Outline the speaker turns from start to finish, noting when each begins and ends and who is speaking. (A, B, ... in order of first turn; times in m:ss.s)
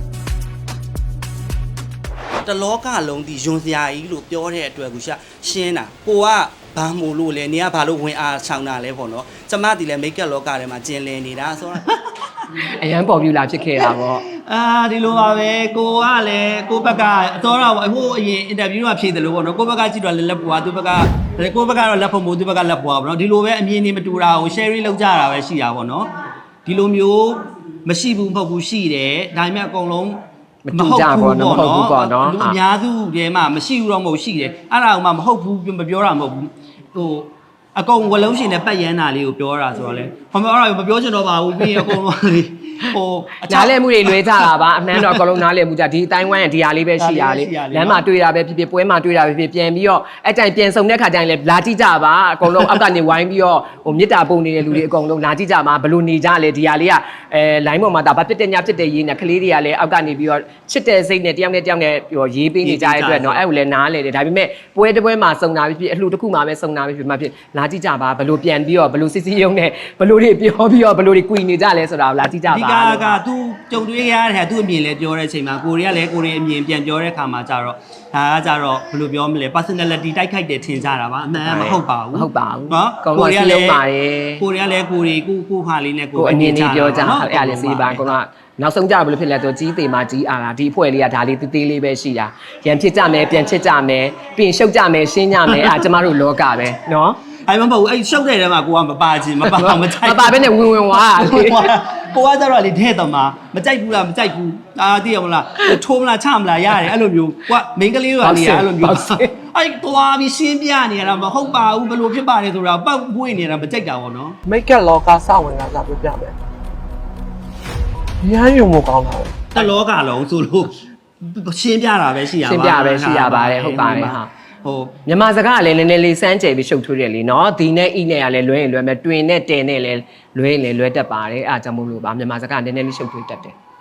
0:02.4-0:12.4 A
0:12.6-0:14.2 B
0:13.9-0:26.1 A
0:26.6-0:45.4 A
0:30.6-0:32.6 B
0:41.7-0:42.0 B
0:43.4-1:13.2 B
0:47.0-0:48.0 A
1:02.6-1:03.4 A
1:12.5-1:23.8 A
1:21.4-1:24.4 B
1:24.4-1:28.1 A
1:26.2-1:37.2 B
1:35.4-1:35.9 A
1:37.5-1:54.4 A
1:39.4-1:41.7 B
1:48.2-1:49.3 B
1:54.4-1:56.4 C
1:58.2-1:59.5 C
1:59.5-2:05.0 A
2:02.4-2:04.3 B
2:05.1-2:13.6 B